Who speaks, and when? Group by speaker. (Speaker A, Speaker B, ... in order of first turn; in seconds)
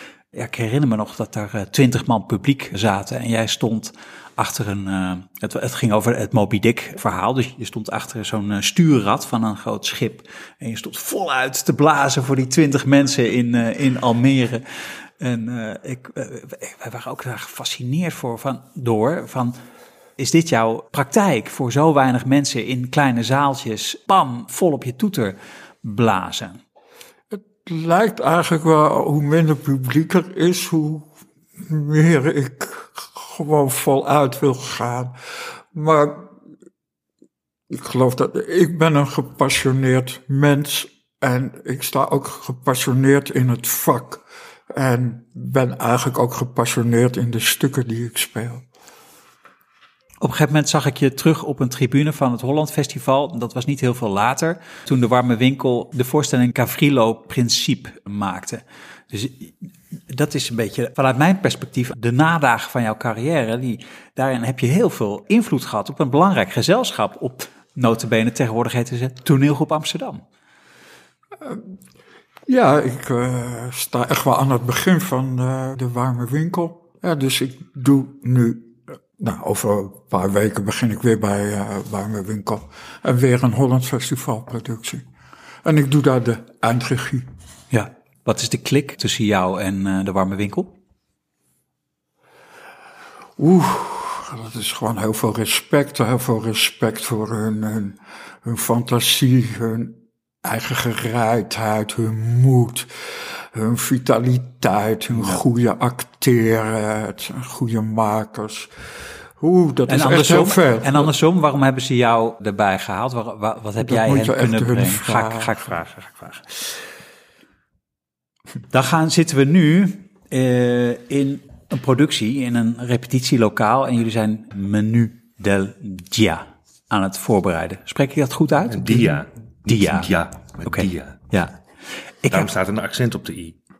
Speaker A: 0.3-19.6, 20.2-26.6, 50.2-70.2, 87.7-90.7, 109.9-116.7, 118.7-130.1, 130.6-131.6, 132.2-132.5
Speaker B: 27.3-36.3, 37.7-48.6, 72.5-85.0, 85.6-87.2, 93.4-108.7, 109.4-111.1, 113.8-115.5
Speaker C: 128.7-131.2, 132.3-133.6